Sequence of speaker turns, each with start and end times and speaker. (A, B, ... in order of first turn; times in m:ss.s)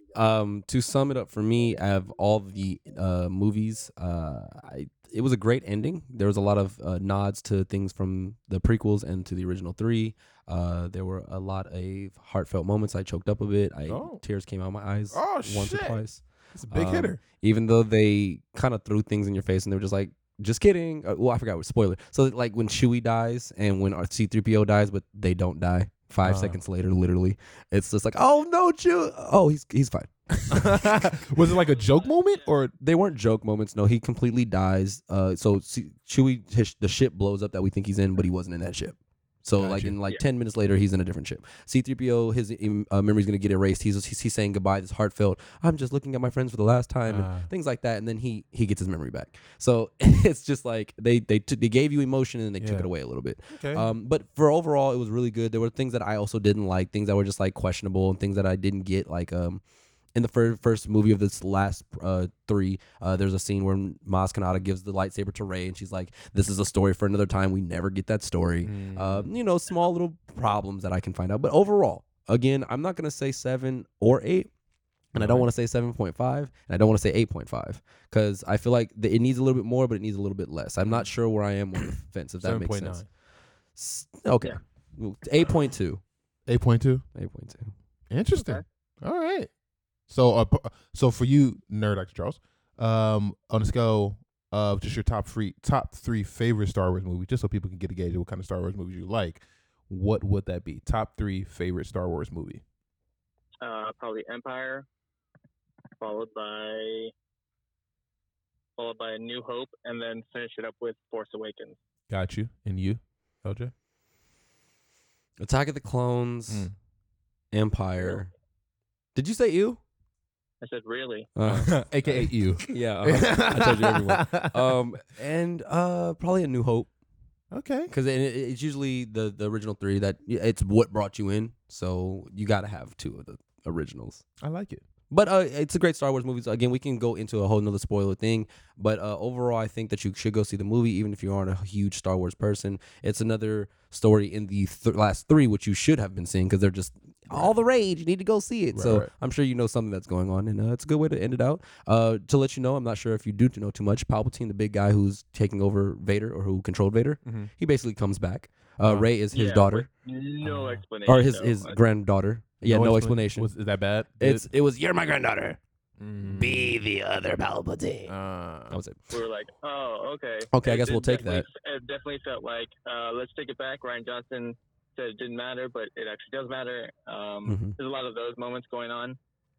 0:00.1-0:30.8 A
0:13.9-0:14.2 B
0:15.1-0:16.0 B
0:16.5-0:17.2 B
0:26.2-0:26.6 B
0:30.5-0:32.7 B
0:31.8-0:32.4 C
0:32.8-0:59.6 A
0:39.6-0:40.0 B
0:47.1-0:47.5 B
0:52.6-0:52.9 B
0:53.5-0:53.9 B
1:00.1-1:14.5 A
1:08.6-1:09.3 B
1:15.1-1:23.0 A
1:15.1-1:15.5 B
1:22.4-1:23.1 B
1:23.8-1:26.0 A
1:26.5-1:27.0 B
1:27.1-1:27.7 A
1:28.1-1:29.5 B
1:28.4-1:28.6 C
1:30.1-1:42.6 B
1:43.6-1:44.9 C
1:46.0-1:47.1 C
1:48.8-1:51.8 C
1:52.1-1:53.7 B
1:55.4-1:56.7 A
1:57.5-1:58.3 A
1:59.1-1:59.8 A
2:00.6-2:01.3 C
2:01.4-2:06.9 A
2:01.4-2:04.8 B
2:07.5-2:07.9 B
2:07.9-2:14.2 A
2:14.4-2:14.8 B
2:15.1-2:39.9 A
2:28.7-2:29.1 B
2:37.2-2:37.5 B
2:38.8-2:39.1 B
2:39.3-2:41.8 C
2:40.4-2:40.8 B
2:41.1-2:43.5 A
2:42.6-2:44.5 B
2:44.2-2:45.6 A
2:46.0-2:46.8 B
2:46.2-2:48.1 A
2:48.1-2:48.8 B
2:48.7-2:49.0 A
2:49.1-2:59.2 C
2:50.5-2:51.4 A
2:57.4-2:57.8 A